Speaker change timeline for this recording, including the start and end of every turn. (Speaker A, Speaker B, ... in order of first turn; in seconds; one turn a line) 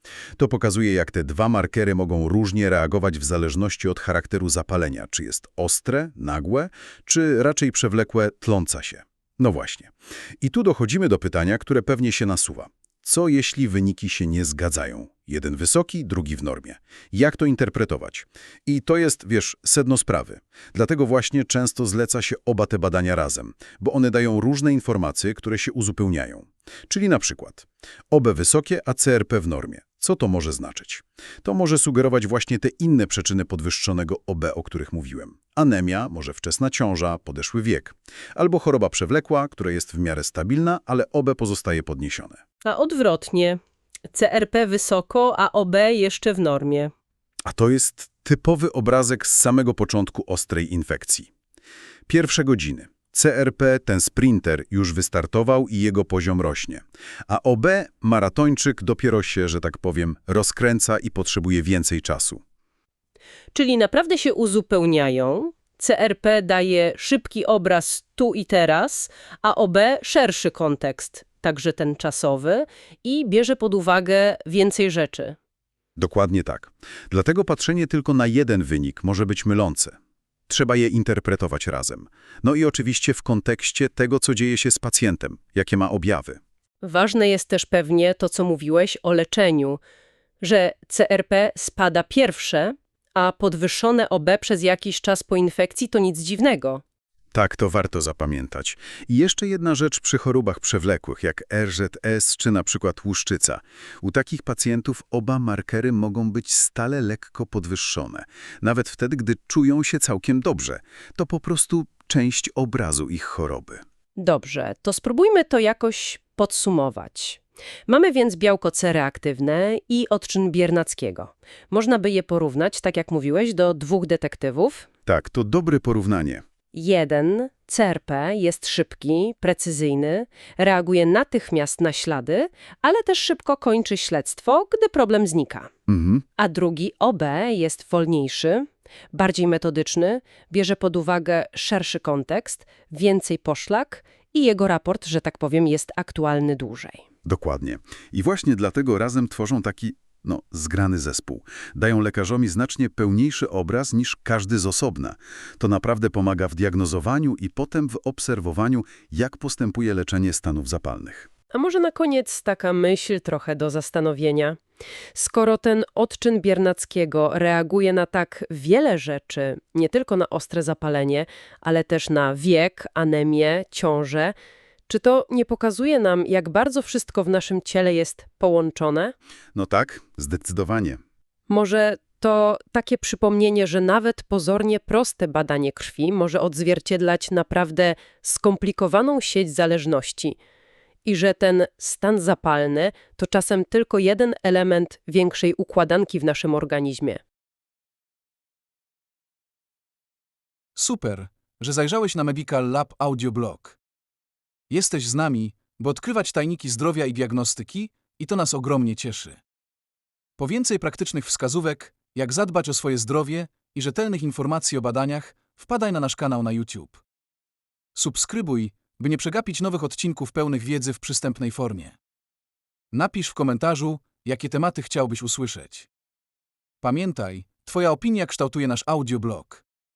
Speaker A: 0.4-42.4
Speaker B: 42.6-46.9
Speaker A: 47.5-51.3
Speaker A: 52.1-62.4
Speaker B: 63.5-75.4
Speaker A: 76.0-79.9
Speaker A: 80.5-86.4
Speaker B: 86.8-89.8
Speaker B: 90.4-96.8
Speaker A: 97.3-113.8
Speaker B: 114.2-124.9
Speaker A: 125.0-126.4
Speaker B: 126.7-135.7
Speaker A: 135.9-136.2
Speaker B: 136.4-147.0
Speaker A: 147.2-161.3
Speaker B: 161.5-164.6
Speaker B: 165.1-174.3
Speaker B: 174.9-179.1
Speaker A: 179.5-181.0
Speaker B: 181.5-190.4
Speaker B: 191.0-197.2
Speaker C: 200.7-203.8
Speaker C: 204.7-209.4
Speaker C: 210.4-217.0
Speaker C: 217.9-222.0
Speaker C: 222.9-225.9
Speaker C: 226.8-229.6